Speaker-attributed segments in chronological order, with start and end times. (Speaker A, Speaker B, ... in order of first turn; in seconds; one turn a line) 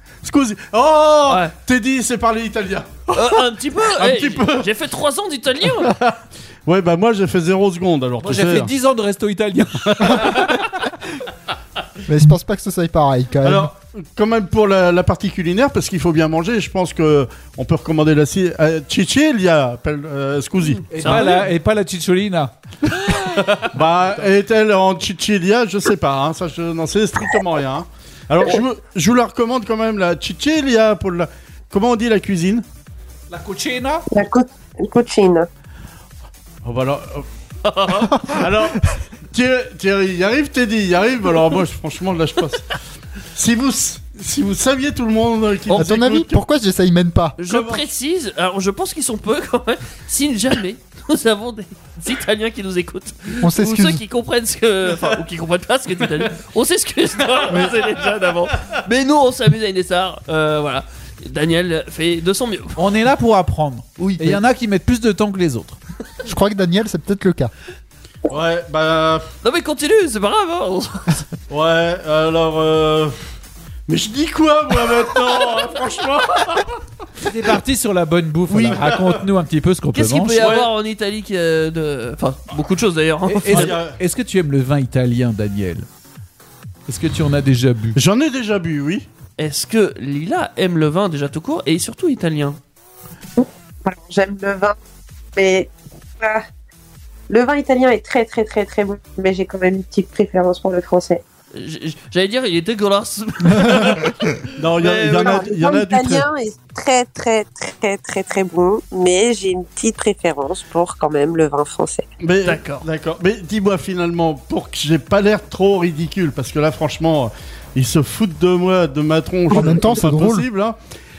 Speaker A: 0.2-3.1
Speaker B: 1.3-1.5
Speaker B: 3.1-6.0
Speaker A: 3.9-4.7
Speaker A: 5.8-8.7
Speaker C: 8.2-10.9
Speaker A: 10.0-10.4
Speaker D: 12.1-13.7
Speaker A: 13.4-21.4
Speaker C: 20.9-23.6
Speaker B: 20.9-21.5
Speaker A: 23.7-32.6
Speaker C: 33.3-34.1
Speaker E: 34.1-35.5
Speaker A: 36.6-37.2
Speaker B: 37.6-38.4
Speaker A: 38.3-42.7
Speaker A: 43.4-46.4
Speaker D: 45.7-47.4
Speaker B: 47.4-62.9
Speaker A: 47.5-47.8
Speaker D: 53.4-54.0
Speaker C: 62.8-65.8
Speaker D: 64.0-64.4
Speaker D: 66.2-67.5
Speaker A: 68.3-69.3
Speaker B: 69.4-71.3
Speaker A: 71.5-73.2
Speaker A: 73.9-76.8
Speaker C: 77.2-80.6
Speaker A: 78.5-79.2
Speaker B: 79.9-83.8
Speaker A: 80.4-80.7
Speaker C: 83.3-85.9
Speaker A: 83.5-84.0
Speaker C: 86.9-88.0
Speaker A: 88.0-89.1
Speaker B: 89.4-92.6
Speaker E: 93.4-94.8
Speaker E: 95.4-96.5
Speaker E: 97.3-101.2
Speaker B: 101.5-105.4
Speaker A: 104.6-106.3
Speaker E: 104.9-112.1
Speaker A: 112.2-120.8
Speaker B: 112.5-112.8
Speaker D: 119.5-120.5